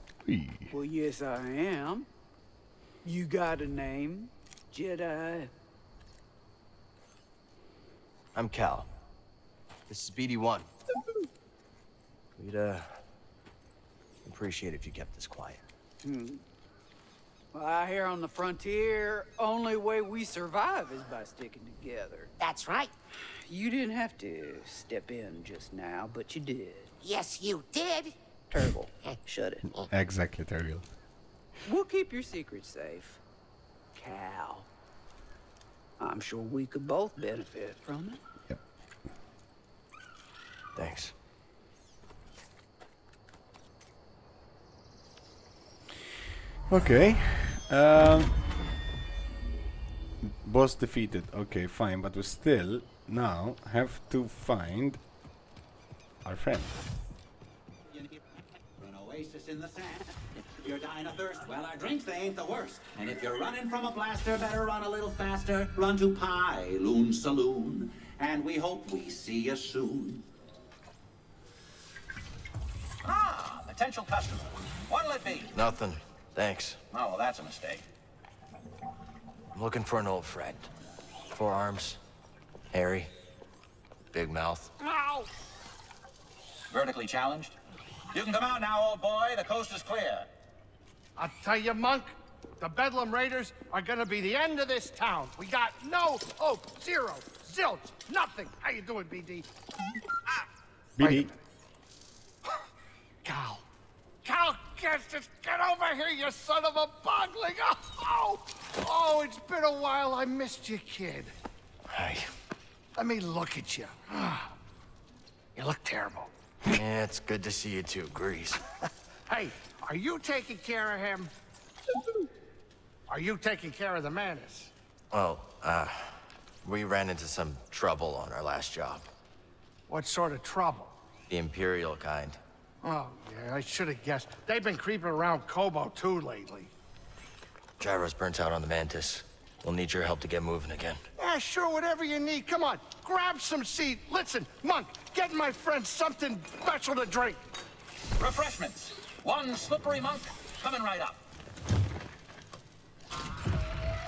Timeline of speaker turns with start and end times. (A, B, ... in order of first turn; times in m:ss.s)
0:00.3-0:00.7 A
0:00.7-0:02.1 B
0:03.0-0:05.5 B
0:08.4-0:08.9 C
0:09.9-0:10.7 C
0:12.4-0:12.9 C
0:14.2-0:15.6 C
0:16.0-0:16.4 B
0:17.5-0:22.3 B
0:22.4-0:22.9 D
0:23.4-0:26.9 B
0:27.0-0:28.2 D
0:28.5-0:29.7 B
0:29.0-0:29.9 D
0:29.9-0:30.9 A
0:31.6-0:33.2 B
0:34.0-0:34.7 B
0:36.0-0:38.2 B
0:40.8-0:41.1 C
0:46.7-0:48.3 A
0:50.2-0:55.0 A
0:56.2-0:56.7 A
0:57.9-0:58.2 E
0:58.8-1:10.2 E
1:13.0-1:15.6 E
1:15.5-1:16.8 C
1:16.9-1:17.8 E
1:19.5-1:20.7 C
1:21.3-1:22.0 C
1:22.7-1:23.1 C
1:24.1-1:24.7 C
1:24.8-1:25.3 F
1:26.7-1:27.6 E
1:28.1-1:30.3 E
1:31.2-1:39.5 F
1:41.0-1:41.3 A
1:41.0-1:41.4 F
1:43.2-1:43.7 F
1:44.2-1:51.4 F
1:51.9-1:52.3 C
1:53.0-1:54.5 F
1:55.6-1:56.3 F
1:56.7-1:58.6 C
1:59.3-2:01.3 F
2:03.1-2:04.7 F
2:05.1-2:09.1 C
2:09.9-2:11.0 F
2:11.3-2:12.4 C
2:12.8-2:16.7 F
2:17.8-2:21.0 C
2:21.2-2:27.4 F
2:28.2-2:31.2 E